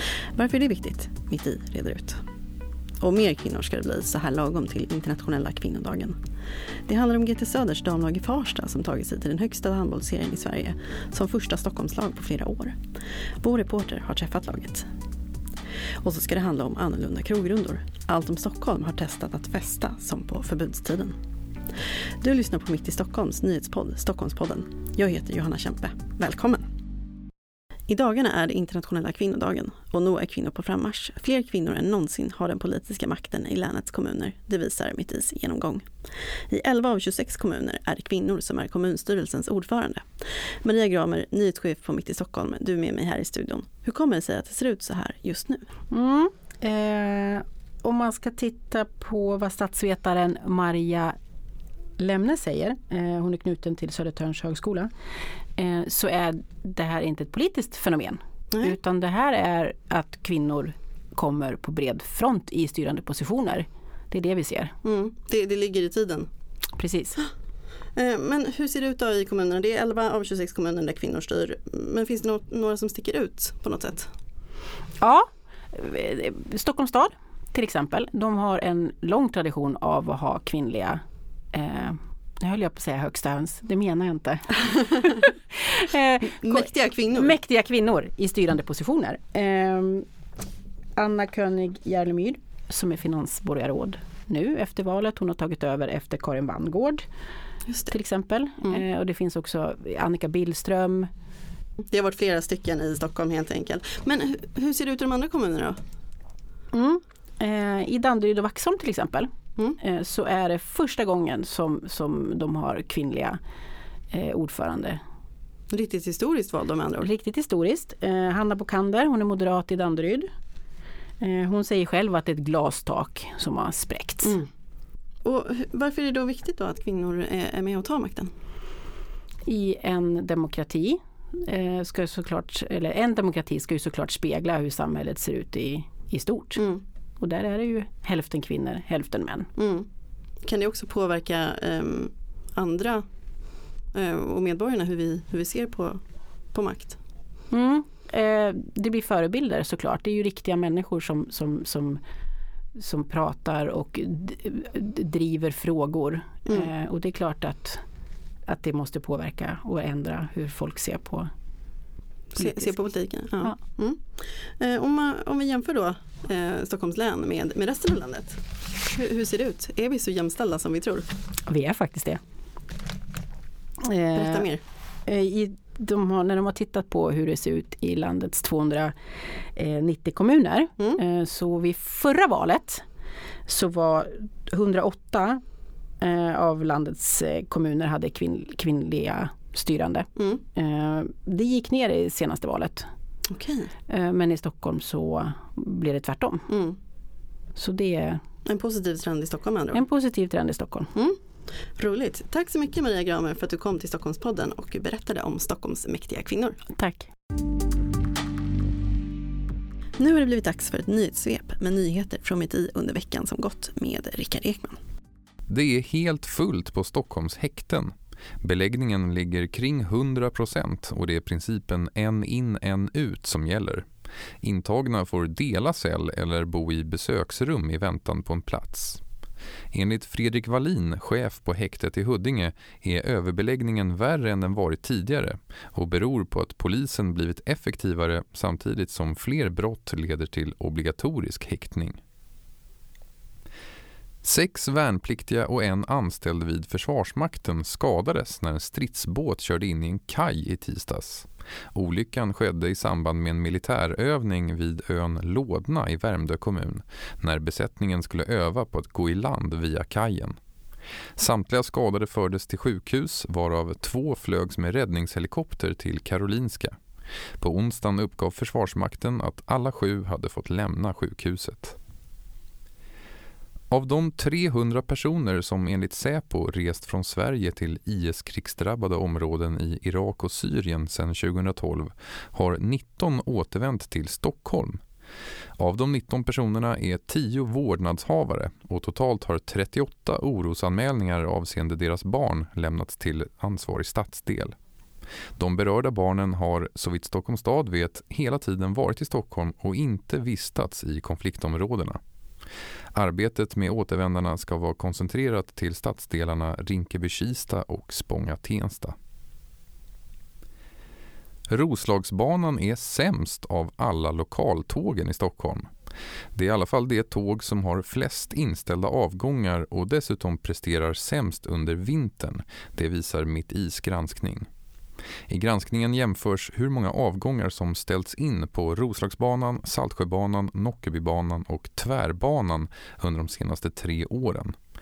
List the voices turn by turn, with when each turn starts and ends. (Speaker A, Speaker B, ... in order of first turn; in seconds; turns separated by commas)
Speaker A: 0.3-2.2, Speaker A: 3.0-6.2, Speaker A: 6.9-12.8, Speaker A: 13.4-14.9, Speaker A: 16.0-21.2, Speaker A: 22.2-26.6, Speaker A: 27.9-35.9, Speaker A: 36.5-45.6, Speaker B: 45.9-51.2, Speaker B: 52.0-54.9, Speaker B: 55.6-64.8, Speaker A: 64.8-66.3, Speaker B: 66.8-67.2, Speaker A: 68.0-74.1, Speaker B: 75.0-81.0, Speaker B: 81.5-90.1, Speaker A: 86.4-87.3, Speaker B: 91.0-97.0, Speaker B: 97.9-101.1, Speaker A: 101.9-105.8, Speaker B: 106.7-113.4, Speaker B: 114.1-115.0, Speaker A: 115.7-117.1, Speaker B: 117.0-120.3, Speaker B: 121.2-124.4, Speaker A: 125.2-128.3, Speaker B: 129.5-139.5, Speaker A: 136.6-136.8, Speaker A: 139.6-139.9, Speaker A: 140.4-143.0, Speaker A: 143.9-146.0, Speaker A: 146.5-147.0, Speaker B: 147.5-152.0, Speaker B: 152.8-157.8, Speaker B: 158.5-161.3, Speaker A: 162.3-168.4, Speaker B: 162.4-162.8, Speaker A: 168.9-171.1, Speaker B: 171.5-172.2, Speaker B: 173.8-174.5, Speaker A: 174.2-174.6, Speaker B: 175.1-178.9, Speaker B: 179.6-182.8, Speaker B: 183.5-185.4, Speaker B: 186.0-192.9, Speaker A: 193.3-193.7, Speaker B: 193.9-196.5, Speaker A: 196.5-196.8, Speaker B: 197.6-198.2, Speaker A: 198.5-199.8, Speaker B: 199.7-200.9, Speaker A: 201.8-206.6, Speaker B: 206.8-207.1, Speaker A: 210.0-214.8, Speaker C: 215.5-223.9, Speaker C: 224.4-229.0, Speaker C: 229.7-242.0, Speaker C: 244.2-260.4, Speaker C: 261.2-266.8, Speaker C: 267.4-271.7, Speaker C: 273.7-284.8, Speaker C: 285.6-294.6, Speaker C: 295.4-302.0, Speaker C: 302.9-308.9, Speaker C: 311.5-315.7, Speaker C: 316.4-324.5, Speaker C: 325.3-334.6